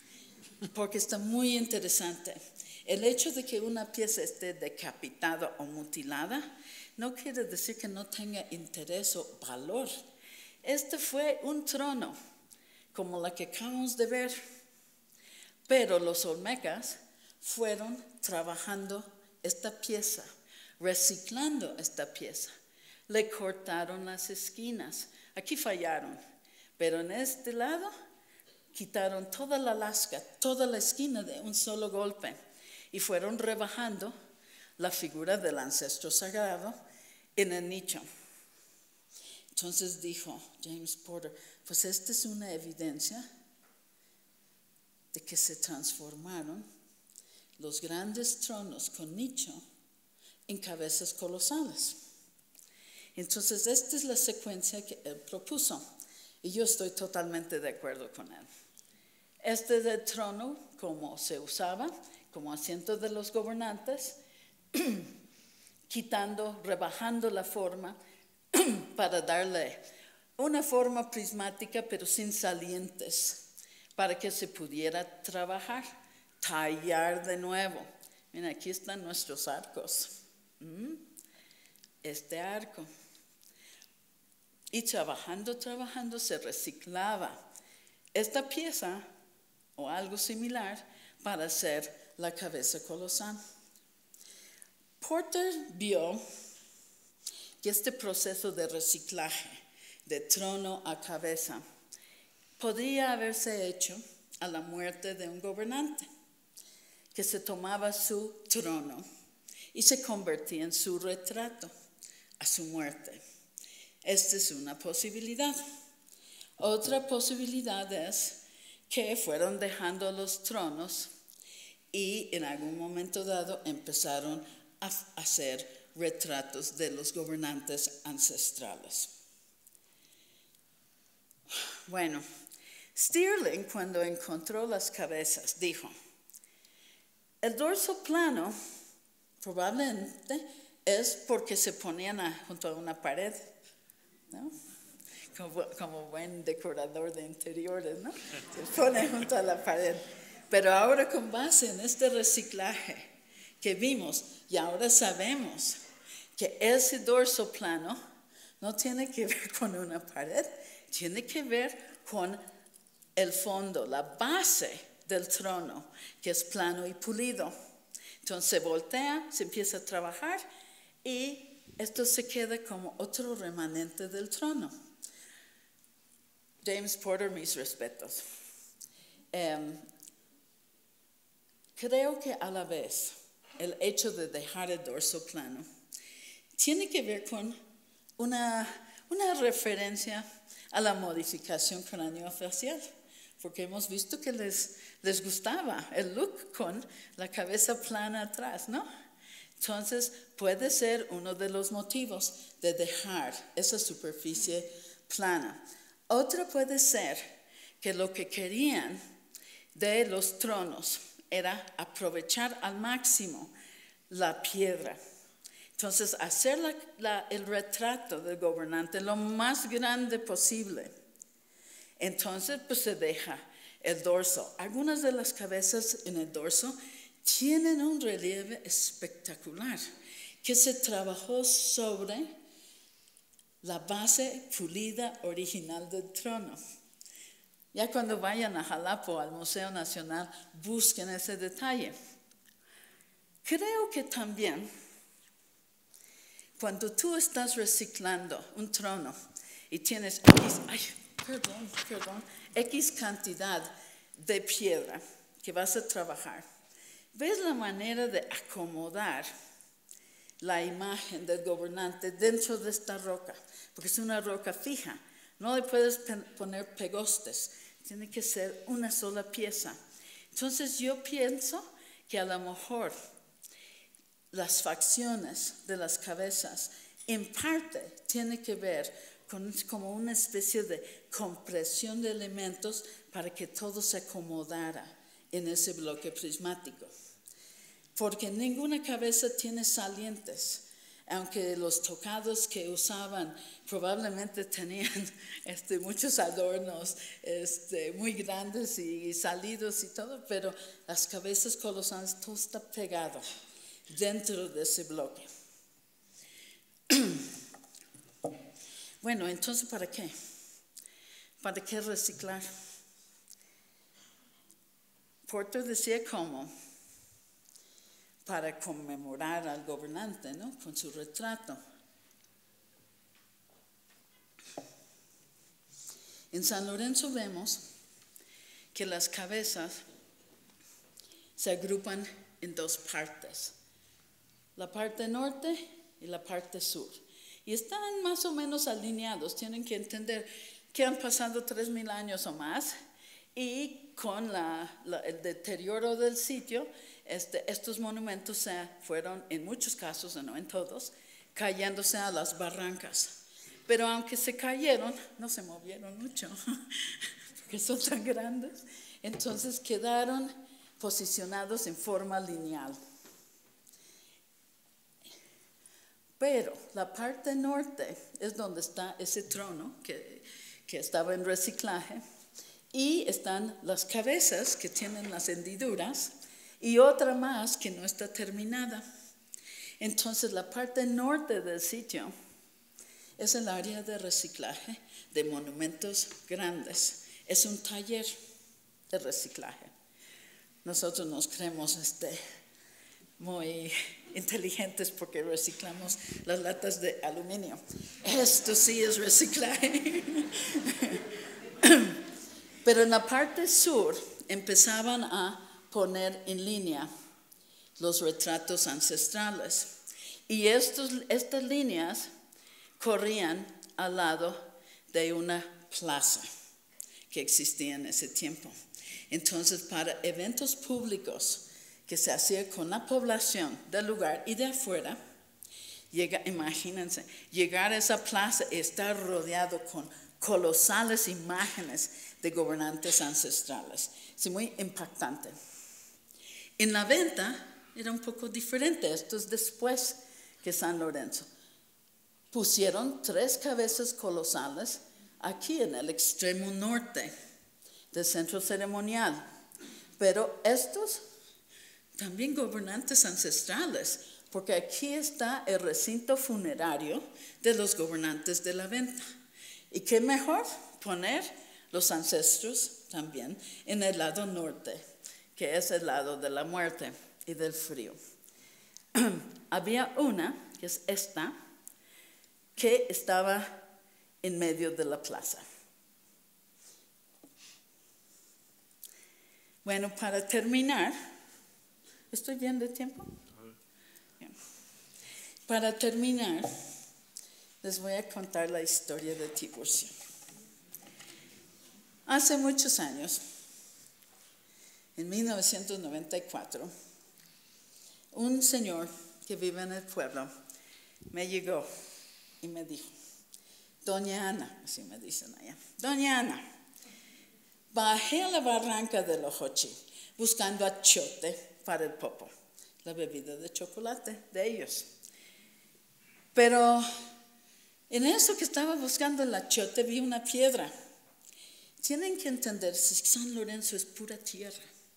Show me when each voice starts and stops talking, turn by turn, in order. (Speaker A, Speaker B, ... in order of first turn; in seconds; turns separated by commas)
Speaker A: 0.7-6.4, Speaker A: 7.0-9.9, Speaker A: 10.6-12.2, Speaker A: 12.9-14.4, Speaker A: 15.7-20.3, Speaker A: 20.8-22.5, Speaker A: 23.1-26.2, Speaker A: 26.8-27.9, Speaker A: 28.7-32.4, Speaker A: 32.9-34.1, Speaker A: 34.8-36.8, Speaker A: 37.4-38.0, Speaker A: 39.5-43.2, Speaker A: 45.1-46.6, Speaker A: 47.6-49.6, Speaker A: 50.5-52.0, Speaker A: 53.2-55.8, Speaker A: 56.4-58.5, Speaker A: 59.4-64.2, Speaker A: 64.7-65.1, Speaker A: 65.9-68.0, Speaker A: 68.5-69.8, Speaker A: 70.4-73.4, Speaker A: 74.0-75.9, Speaker A: 76.4-81.0, Speaker A: 82.0-82.9, Speaker A: 84.7-87.4, Speaker A: 88.2-89.0, Speaker A: 89.8-93.4, Speaker A: 95.0-96.2, Speaker A: 97.6-101.6, Speaker A: 102.6-106.1, Speaker A: 107.1-109.0, Speaker A: 109.7-111.7, Speaker A: 112.4-113.2, Speaker A: 114.0-115.6, Speaker A: 116.6-118.4, Speaker A: 118.9-121.1, Speaker A: 121.9-129.1, Speaker A: 131.9-132.2, Speaker A: 132.9-135.9, Speaker A: 137.4-138.5, Speaker A: 139.4-143.5, Speaker A: 145.3-153.1, Speaker A: 153.6-155.8, Speaker A: 156.4-158.0, Speaker A: 158.6-162.4, Speaker A: 163.2-167.5, Speaker A: 168.2-170.4, Speaker A: 171.0-174.7, Speaker A: 176.6-178.2, Speaker A: 179.3-179.8, Speaker A: 181.8-185.7, Speaker A: 186.6-187.6, Speaker A: 188.2-192.9, Speaker A: 193.4-198.9, Speaker A: 199.6-205.6, Speaker A: 206.1-207.2, Speaker A: 207.8-209.0, Speaker A: 209.8-213.5, Speaker A: 214.1-215.0, Speaker A: 215.8-220.9, Speaker A: 222.0-229.8, Speaker A: 230.4-232.3, Speaker A: 233.6-236.6, Speaker A: 237.7-241.9, Speaker A: 243.4-244.7, Speaker A: 246.6-249.2, Speaker A: 249.7-256.4, Speaker A: 257.1-259.3, Speaker A: 260.4-269.8, Speaker A: 270.3-272.9, Speaker A: 274.3-286.9, Speaker A: 287.9-303.2, Speaker A: 303.9-305.3, Speaker A: 306.9-307.2, Speaker A: 309.0-310.1, Speaker A: 311.4-312.5, Speaker A: 315.3-316.5, Speaker A: 318.3-321.6, Speaker A: 326.3-327.6, Speaker A: 328.7-329.8, Speaker A: 331.4-333.5, Speaker A: 334.6-342.8, Speaker A: 343.4-353.1, Speaker A: 353.7-356.4, Speaker A: 357.4-362.8, Speaker A: 366.2-372.0, Speaker A: 372.7-378.8, Speaker A: 379.8-382.1, Speaker A: 383.2-388.1, Speaker A: 388.9-389.7, Speaker A: 390.6-392.2, Speaker A: 393.2-400.3, Speaker A: 401.6-402.0, Speaker A: 402.6-406.9, Speaker A: 407.8-409.7, Speaker A: 410.3-412.1, Speaker A: 412.8-414.4, Speaker A: 414.9-416.3, Speaker A: 417.1-418.6, Speaker A: 419.1-425.0, Speaker A: 425.9-435.4, Speaker A: 436.6-441.3, Speaker A: 442.3-447.1, Speaker A: 447.9-449.2, Speaker A: 450.0-451.0, Speaker A: 452.0-459.0, Speaker A: 459.7-464.8, Speaker A: 465.4-468.0, Speaker A: 468.9-471.3, Speaker A: 472.6-473.5, Speaker A: 474.2-475.4, Speaker A: 479.6-480.9, Speaker A: 482.1-483.1, Speaker A: 485.5-486.5, Speaker A: 487.6-489.9, Speaker A: 492.1-493.2, Speaker A: 495.0-496.7, Speaker A: 498.1-500.3, Speaker A: 501.1-501.7, Speaker A: 502.4-502.9, Speaker A: 503.8-506.4, Speaker A: 507.7-512.3, Speaker A: 512.9-514.9, Speaker A: 516.4-516.9, Speaker A: 517.9-520.7, Speaker A: 521.8-524.7